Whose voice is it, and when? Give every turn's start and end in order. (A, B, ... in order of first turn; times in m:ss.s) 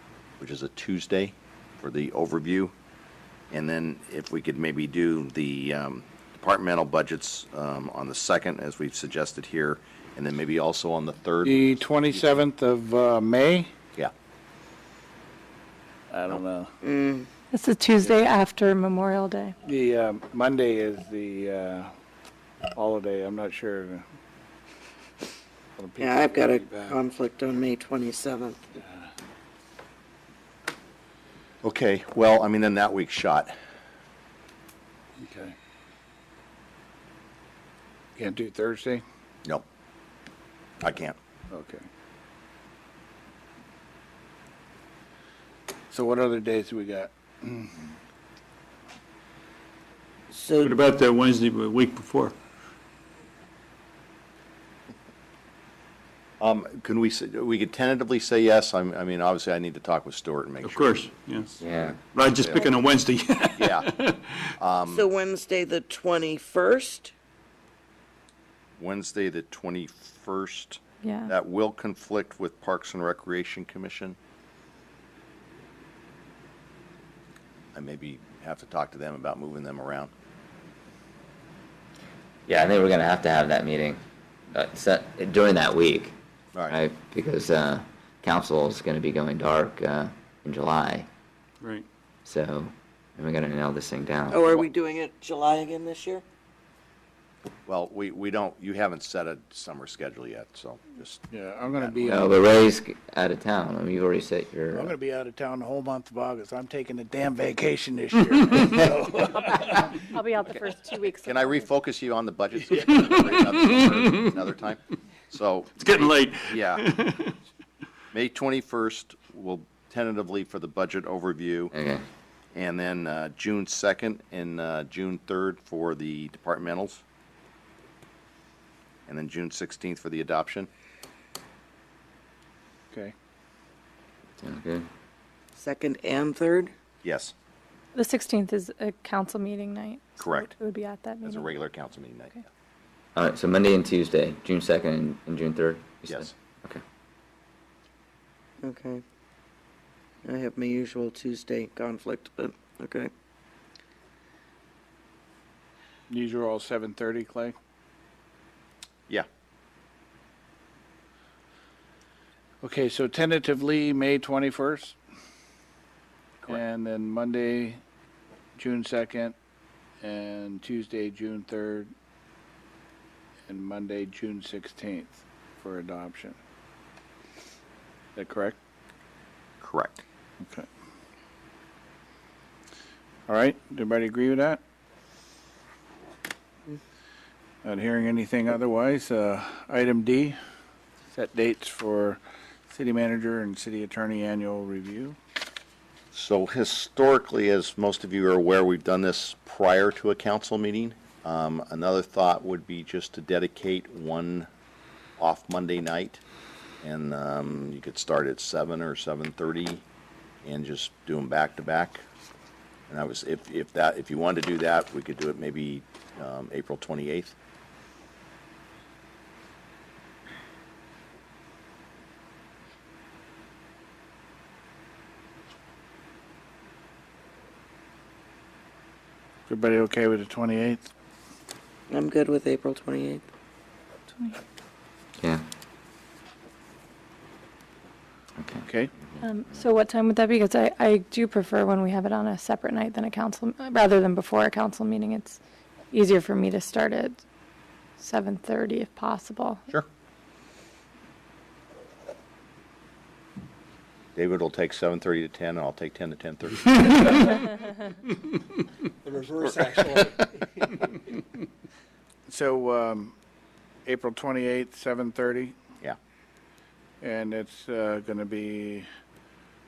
0:00.4-0:02.7 A
0:03.5-0:12.3 A
0:11.4-0:13.7 B
0:16.1-0:16.7 B
0:16.8-0:17.3 C
0:17.5-0:19.6 D
0:19.6-0:21.9 B
0:22.7-0:24.0 B
0:25.8-0:27.0 B
0:26.0-0:28.6 C
0:28.8-0:29.1 B
0:31.6-0:33.5 A
0:35.2-0:35.5 B
0:38.2-0:39.0 B
0:40.8-0:41.2 A
0:41.5-0:41.8 B
0:45.9-0:47.8 B
0:50.3-0:50.8 C
0:50.6-0:52.3 E
0:56.4-1:02.7 A
1:00.6-1:01.5 E
1:01.6-1:02.0 F
1:02.0-1:04.5 E
1:03.6-1:03.9 A
1:04.6-1:05.0 A
1:04.9-1:07.1 C
1:08.8-1:14.2 A
1:11.0-1:11.3 D
1:17.7-1:20.1 A
1:22.5-1:24.0 F
1:24.5-1:26.1 F
1:26.5-1:26.8 A
1:26.7-1:31.1 F
1:32.2-1:34.7 F
1:34.3-1:36.2 C
1:37.6-1:42.1 A
1:41.3-1:42.4 B
1:42.0-1:44.9 F
1:44.7-1:50.0 B
1:50.0-1:51.6 D
1:51.2-1:56.8 A
1:53.1-1:54.0 E
1:55.8-1:57.3 E
1:58.1-2:01.7 A
2:01.7-2:02.0 F
2:02.5-2:07.0 A
2:09.1-2:10.7 A
2:14.4-2:14.8 F
2:15.6-2:16.7 C
2:17.0-2:17.3 A
2:17.9-2:21.6 D
2:20.2-2:20.5 A
2:21.2-2:22.4 A
2:23.1-2:26.8 F
2:26.1-2:26.3 A
2:28.6-2:29.0 C
2:30.2-2:33.1 C
2:36.1-2:37.6 B
2:42.6-2:45.0 B
2:46.5-2:47.8 B
2:48.6-2:49.3 B
2:50.0-2:51.9 B
2:53.5-2:56.4 B
2:58.2-2:58.6 B
2:59.6-3:00.0 A
3:03.3-3:04.6 B
3:07.6-3:10.4 B
3:11.1-3:12.2 B
3:12.7-3:15.2 B
3:16.1-3:24.5 A
3:25.2-3:26.2 A
3:26.8-3:29.8 A
3:30.4-3:32.0 A
3:32.9-3:37.3 A
3:49.5-3:50.9 B
3:51.9-3:53.2 C
3:55.2-3:55.4 F
3:58.4-3:58.6 F
3:58.6-3:58.9 B
3:59.2-4:05.4 D
4:05.9-4:07.2 D
4:08.0-4:09.6 D
4:14.2-4:17.3 A
4:19.1-4:19.9 B
4:19.4-4:20.2 A
4:22.3-4:23.1 B
4:23.8-4:25.5 B
4:27.0-4:28.8 B